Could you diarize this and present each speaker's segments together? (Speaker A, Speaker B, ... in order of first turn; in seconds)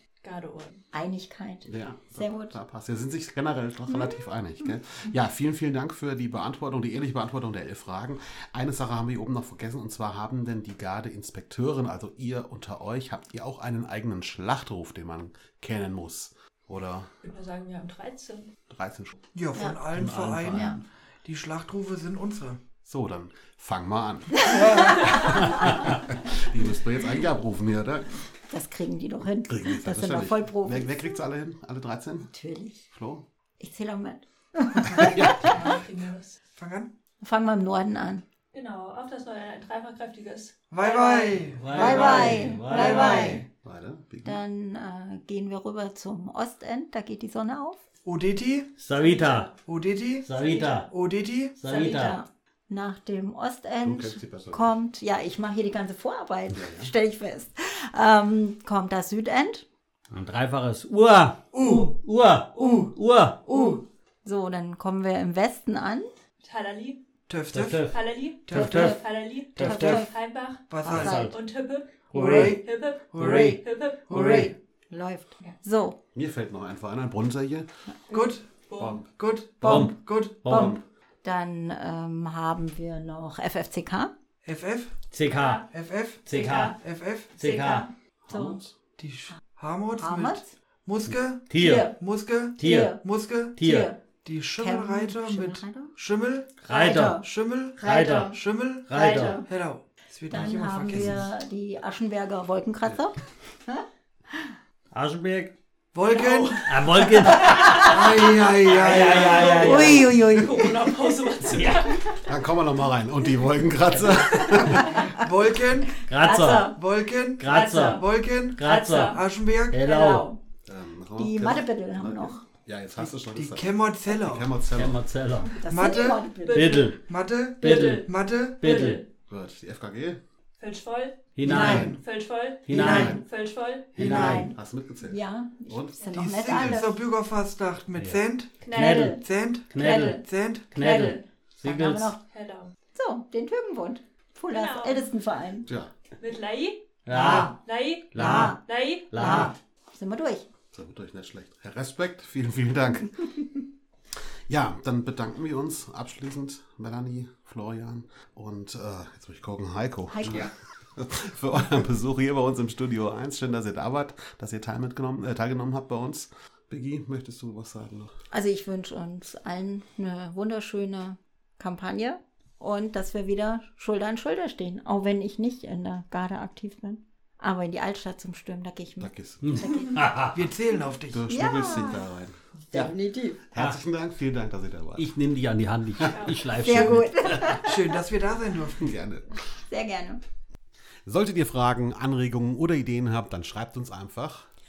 Speaker A: 0.2-0.8, 17.2-18.5, 35.2-36.4, 38.5-42.4, 42.9-43.2, 49.0-49.6, 50.3-50.8, 51.8-52.2, 66.4-67.0, 67.9-74.5, 78.1-79.0, 85.3-85.7, 86.3-86.7, 87.5-87.9, 108.9-112.2, 117.5-118.1, 118.6-119.2, 125.9-127.0, 127.6-128.1, 128.6-129.1, 130.6-134.2, 136.0-136.7, 138.6-139.2, 140.8-141.3, 142.3-142.7, 144.5-145.1, 146.2-149.5, 186.1-186.4
Speaker B: 0.9-2.6, 3.9-4.2, 20.5-20.8, 24.4-25.3, 28.5-31.0, 32.3-32.9, 33.6-35.7, 37.2-38.2, 41.8-43.5, 44.2-47.8, 51.7-59.6, 63.5-66.1, 68.6-69.0, 69.6-70.1, 70.8-71.4, 74.2-76.0, 79.6-79.9, 80.5-84.1, 88.3-88.6, 90.0-90.5, 91.6-91.9, 92.6-93.0, 93.6-94.0, 94.6-95.9, 96.7-99.5, 100.3-104.5, 109.4-111.2, 114.8-115.0, 116.2-116.8, 119.8-120.4, 121.2-122.4, 125.6-126.9, 131.5-131.9, 132.8-133.2, 134.0-136.9, 138.7-139.2, 139.8-140.2, 141.6-142.2, 142.9-145.7, 147.1-147.6, 148.2-148.6, 149.1-150.5, 160.1-160.5, 168.3-180.1, 181.3-182.0, 182.7-183.4, 186.6-187.9, 189.7-190.2
Speaker C: 1.7-17.1, 18.7-19.2, 22.9-28.1, 29.5-32.3, 32.9-33.2, 35.0-35.6, 43.6-44.4, 53.8-54.8, 56.5-56.9, 76.1-77.7, 78.8-79.0, 80.5-80.8, 112.3-114.9, 120.7-125.0, 129.3-130.2, 131.6-131.9, 132.9-133.2, 134.3-136.0, 145.7-145.9, 150.7-153.3, 154.5-168.1, 179.0-179.6, 181.1-182.4, 183.5-185.1, 188.8-189.4, 191.1-194.5
Speaker D: 19.4-22.6, 34.8-35.2, 36.5-36.9, 40.7-43.5, 48.0-48.7, 49.7-51.6, 61.5-61.9, 62.6-62.9, 63.5-63.8, 67.3-67.8, 68.5-69.0, 70.7-71.3, 72.1-74.5, 78.1-78.5, 79.0-80.7, 84.4-85.0, 85.7-87.4, 89.0-93.6, 94.2-101.3, 105.9-109.9, 114.6-116.0, 116.7-119.8, 123.0-124.6, 125.7-126.3, 127.1-129.0, 131.4-132.0, 132.8-133.2, 134.0-134.5, 136.1-138.6, 139.2-141.0, 180.3-181.3, 187.6-188.9
Speaker E: 19.9-20.9, 41.5-43.5, 48.8-49.5, 50.2-50.9, 51.6-52.2, 60.1-63.8, 67.5-69.0, 69.5-70.1, 70.8-71.4, 72.1-74.5, 79.6-80.8, 85.1-85.7, 86.3-86.8, 87.4-88.6, 91.5-91.9, 92.6-93.0, 93.6-93.9, 96.6-97.2, 97.8-99.4, 104.9-105.5, 106.2-110.3, 111.4-112.0, 113.9-115.0, 116.0-116.8, 117.4-120.3, 124.7-125.6, 126.5-127.0, 127.6-129.0, 131.4-132.0, 132.7-133.2, 133.9-134.5, 138.7-142.1, 147.1-147.6, 148.1-148.6, 149.1-149.5, 179.4-180.4, 183.5-183.8, 185.0-187.6